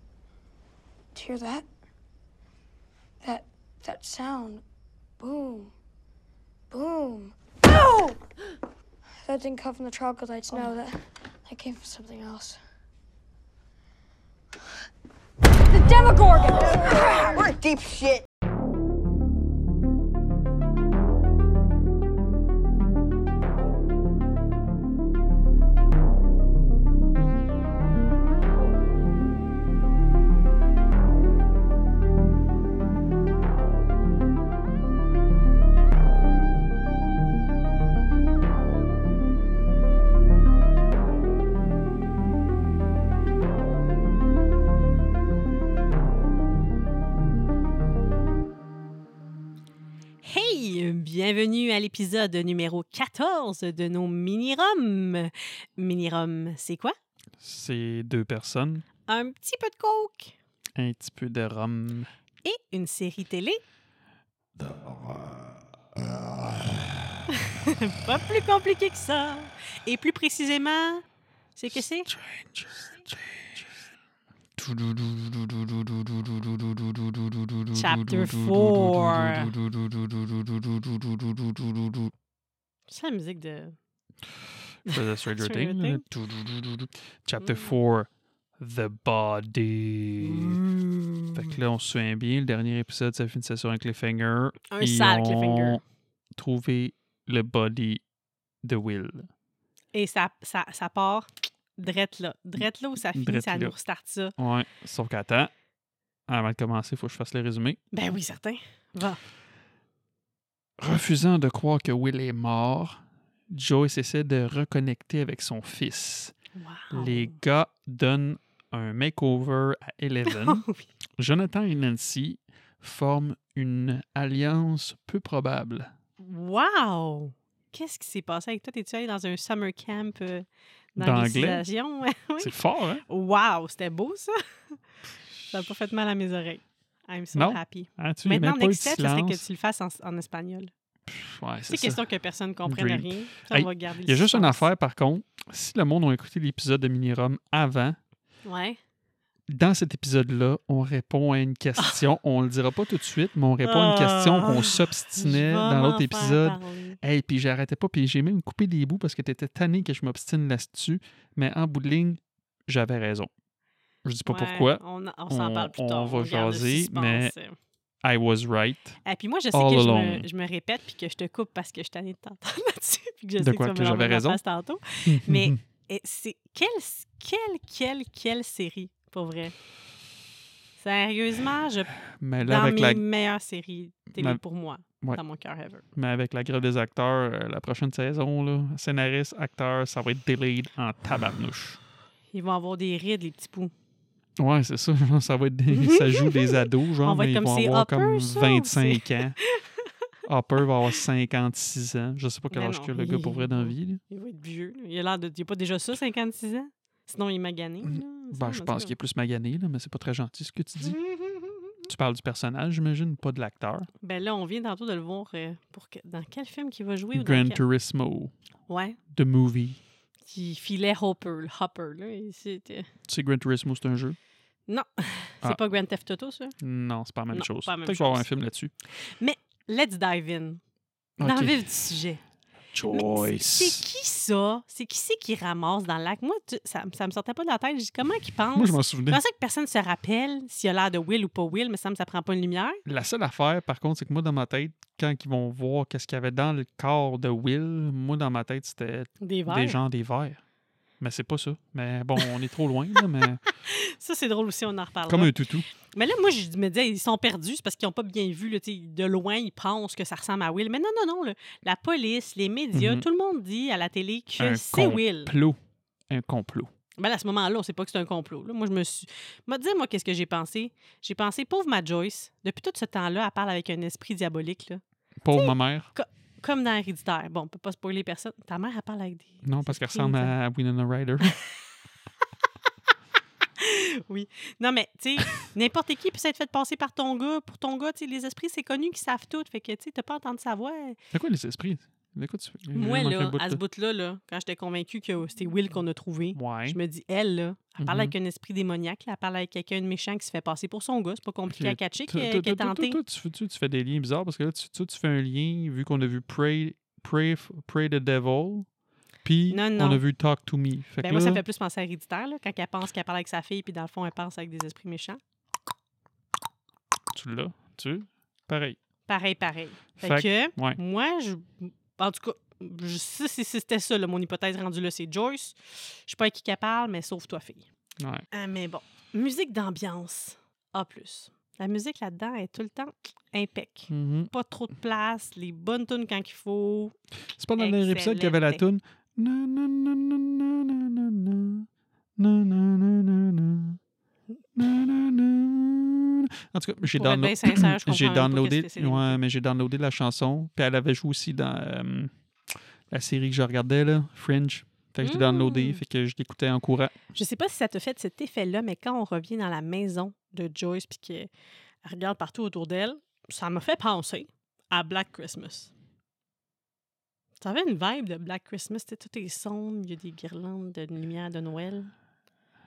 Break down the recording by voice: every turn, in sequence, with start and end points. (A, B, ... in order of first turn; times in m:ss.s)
0:01.2-0:01.7 A
0:03.2-0:04.6 A
0:05.2-0:05.7 A
0:06.7-0:08.2 A
0:09.2-0:12.6 A
0:15.7-0:18.3 A
0:50.2-0:57.0 B
0:57.4-0:58.8 C
0:59.1-1:00.4 B
1:00.8-1:02.1 C
1:02.4-1:03.6 B
1:04.7-1:05.2 C
1:07.3-1:11.0 B
1:11.6-1:12.1 B
1:12.1-1:13.9 C
1:14.6-1:22.1 C
1:17.8-1:19.5 B
1:22.9-1:23.8 B
1:24.8-1:30.6 C
1:24.9-1:26.0 B
1:27.4-1:27.7 B
1:30.2-1:31.5 B
1:31.4-1:35.8 C
1:34.7-1:35.8 B
1:36.4-1:38.0 C
1:38.6-1:39.3 C
1:39.9-1:44.4 B
1:43.2-1:43.8 C
1:44.4-1:45.5 C
1:46.3-1:47.8 C
1:47.9-1:49.2 B
1:50.8-1:56.3 C
1:56.6-1:57.4 B
1:56.9-2:00.6 C
2:00.3-2:00.8 B
2:01.2-2:05.9 C
2:06.2-2:14.4 B
2:11.0-2:11.7 C
2:12.4-2:13.0 C
2:15.5-2:20.7 B
2:17.4-2:19.4 C
2:21.1-2:22.0 C
2:21.7-2:24.7 B
2:22.7-2:28.0 C
2:28.5-2:28.8 B
2:29.5-2:43.3 C
2:33.6-2:37.0 B
2:44.0-2:47.3 C
2:44.3-2:47.6 B
2:48.0-2:49.0 C
2:49.0-2:59.6 B
2:49.5-2:50.3 C
2:53.4-2:54.4 C
2:55.0-2:55.6 C
3:00.8-3:05.8 B
3:02.1-3:03.0 C
3:05.9-3:11.8 C
3:12.3-3:13.7 B
3:14.4-3:19.4 C
3:15.7-3:19.9 B
3:20.2-3:24.0 C
3:22.5-3:28.9 B
3:27.8-3:31.0 C
3:30.8-3:31.8 B
3:31.8-3:33.9 C
3:34.0-3:37.6 B
3:37.1-3:38.3 C
3:38.7-3:39.0 B
3:39.1-3:39.8 C
3:40.3-3:42.9 B
3:43.1-3:44.2 C
3:44.7-3:46.6 B
3:46.6-3:48.7 C
3:47.3-3:48.3 B
3:49.0-3:50.6 B
3:51.2-3:51.6 C
3:51.2-3:52.2 B
3:52.7-3:53.8 C
3:52.9-4:02.8 B
3:58.6-3:59.2 C
4:02.8-4:10.4 C
4:09.2-4:09.8 B
4:11.0-4:13.4 C
4:13.5-4:15.4 B
4:15.1-4:15.7 C
4:15.9-4:25.3 B
4:22.7-4:23.0 C
4:24.4-4:25.6 C
4:26.1-4:26.7 C
4:27.0-4:34.8 B
4:35.2-4:35.9 C
4:35.3-4:40.3 B
4:39.4-4:41.4 C
4:43.6-4:51.0 B
4:51.1-4:53.6 C
4:52.8-5:03.0 B
4:56.4-4:56.8 C
4:57.8-4:58.2 C
5:01.5-5:08.7 C
5:09.2-5:11.4 C
5:09.5-5:10.0 B
5:11.0-5:15.2 B
5:17.1-5:18.8 C
5:19.1-5:27.7 B
5:20.0-5:20.8 C
5:28.0-5:28.2 C
5:28.3-5:37.0 B
5:33.9-5:34.3 C
5:37.4-5:43.8 C
5:37.6-5:38.6 B
5:44.6-5:52.1 C
5:47.0-5:49.2 B
5:52.9-5:57.0 C
5:55.0-5:55.8 B
5:57.1-6:01.3 B
6:01.8-6:05.7 B
6:07.4-6:11.9 B